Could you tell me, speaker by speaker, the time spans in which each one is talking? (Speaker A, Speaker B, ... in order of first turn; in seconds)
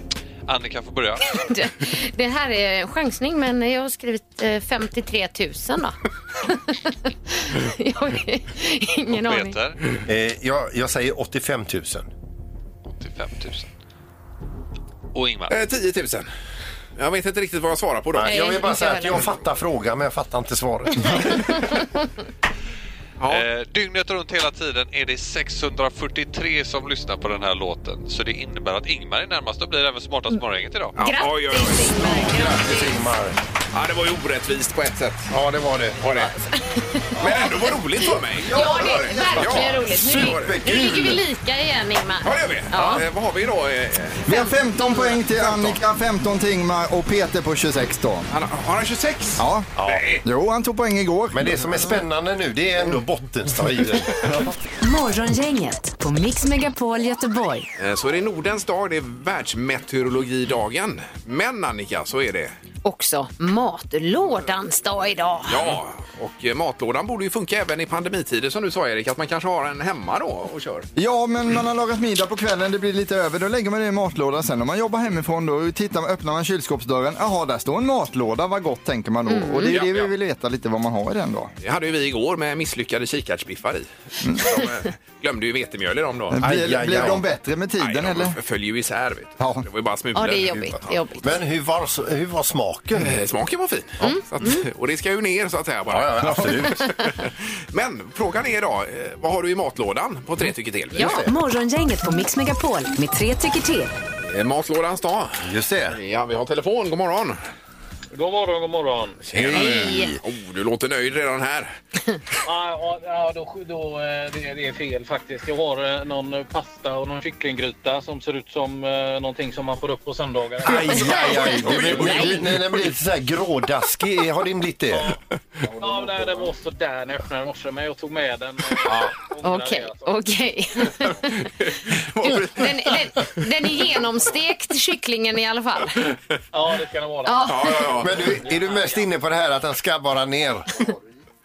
Speaker A: 0.5-1.4, 9.1-10.0, 12.9-13.7, 15.1-15.6, 23.3-30.9
Speaker B: 1.4-9.6, 18.2-19.3, 30.9-33.0, 36.7-37.4, 38.5-43.0, 62.9-65.7, 79.3-79.7, 90.1-91.3, 94.0-94.6, 109.5-110.1, 120.9-122.4, 129.4-131.4, 132.2-136.1, 137.2-137.9
Speaker C: 10.1-12.1, 18.1-21.7, 32.0-33.4, 35.3-36.0, 39.4-41.2, 49.8-50.1, 51.3-54.5, 86.4-87.2, 90.5-93.2, 95.9-96.9, 100.9-101.4, 105.4-106.0, 109.3-110.2, 120.6-125.1, 138.0-140.8
Speaker D: 15.5-16.3, 16.9-18.4, 23.2-23.4, 31.0-32.2, 33.7-35.3, 36.0-36.3, 37.2-40.5, 42.2-44.2, 45.3-45.8, 48.3-50.2, 57.8-62.5, 65.5-70.9, 79.7-80.1, 81.6-86.4, 87.8-90.6, 93.0-101.1, 104.2-107.4, 109.3-111.7, 121.4-122.6, 131.3-132.9, 137.5-138.3
Speaker E: 38.4-39.6, 44.3-48.3, 49.4-49.7, 50.2-51.6, 71.0-81.5, 84.2-84.6, 86.3-88.4, 89.4-89.6
Speaker F: 54.8-57.7, 101.2-103.9
Speaker G: 108.1-109.2, 112.5-121.2, 121.7-122.2, 125.7-130.2, 136.5-139.1